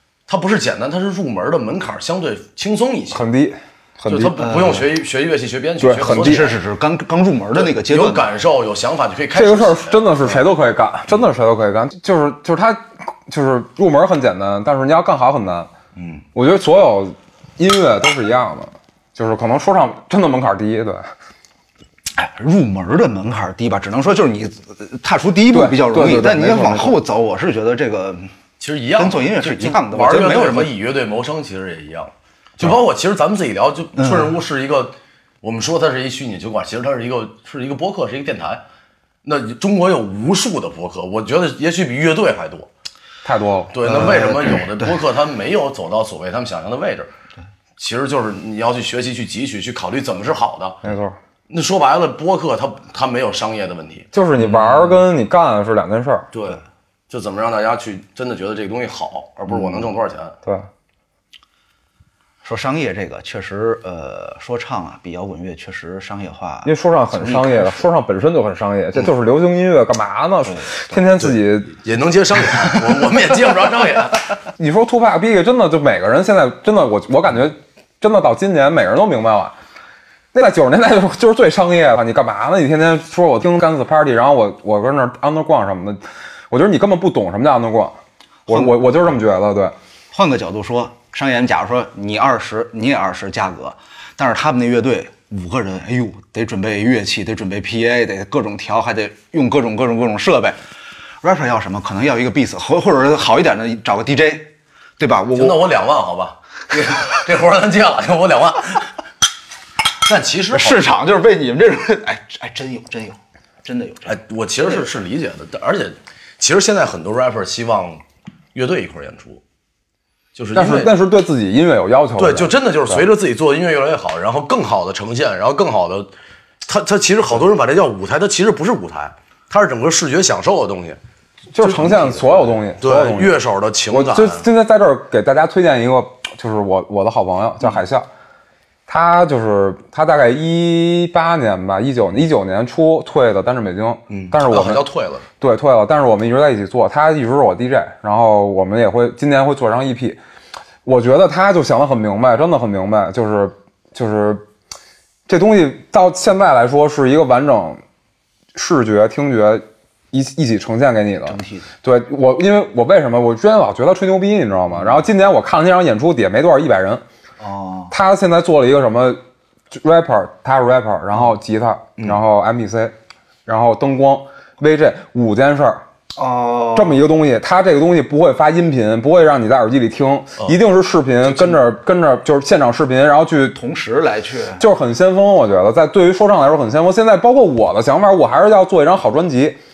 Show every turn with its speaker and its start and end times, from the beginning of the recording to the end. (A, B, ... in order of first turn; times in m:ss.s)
0:00.3-0:03.2 A
0:03.1-0:04.3 B
0:04.1-0:06.5 A
0:04.4-0:04.8 C
0:05.8-0:06.5 B
0:06.0-0:08.3 C
0:07.5-0:10.4 A
0:09.3-0:15.7 B
0:16.0-0:16.2 A
0:16.3-0:21.1 B
0:22.1-0:28.3 C
0:25.5-0:27.0 B
0:28.6-0:38.6 A
0:28.9-0:30.8 C
0:34.0-0:34.3 C
0:39.2-0:42.7 A
0:43.2-0:43.8 B
0:43.7-0:47.1 A
0:43.8-0:45.0 C
0:47.8-0:50.8 A
0:50.8-0:51.2 B
0:51.5-0:54.1 A
0:54.1-0:56.3 B
0:54.4-0:55.0 C
0:56.3-1:00.4 A
1:02.4-1:07.8 C
1:06.6-1:11.7 B
1:10.4-1:11.0 C
1:11.2-1:14.3 A
1:14.6-1:19.5 B
1:20.3-1:28.0 B
1:28.5-1:28.8 C
1:28.5-1:29.7 B
1:30.1-1:40.6 C
1:41.2-1:45.6 C
1:45.4-1:48.9 A
1:50.0-1:50.8 A
1:50.5-1:54.8 C
1:54.0-1:58.0 A
1:58.5-1:59.4 A
2:00.3-2:00.9 A
2:00.5-2:03.0 B
2:02.2-2:06.1 A
2:06.6-2:11.0 A
2:11.5-2:13.4 B
2:11.6-2:14.4 A
2:13.9-2:18.0 B
2:18.9-2:24.8 B
2:24.1-2:25.2 A
2:25.4-2:30.2 B
2:30.8-2:34.4 B
2:35.3-2:37.8 B
2:38.5-2:47.0 B
2:41.2-2:41.7 C
2:44.8-2:45.0 C
2:47.4-2:47.9 C
2:47.9-2:49.2 B
2:49.7-2:52.9 B
2:53.4-2:55.8 B
2:56.2-2:57.0 C
2:56.7-3:03.6 B
3:03.5-3:04.6 C
3:04.6-3:09.6 B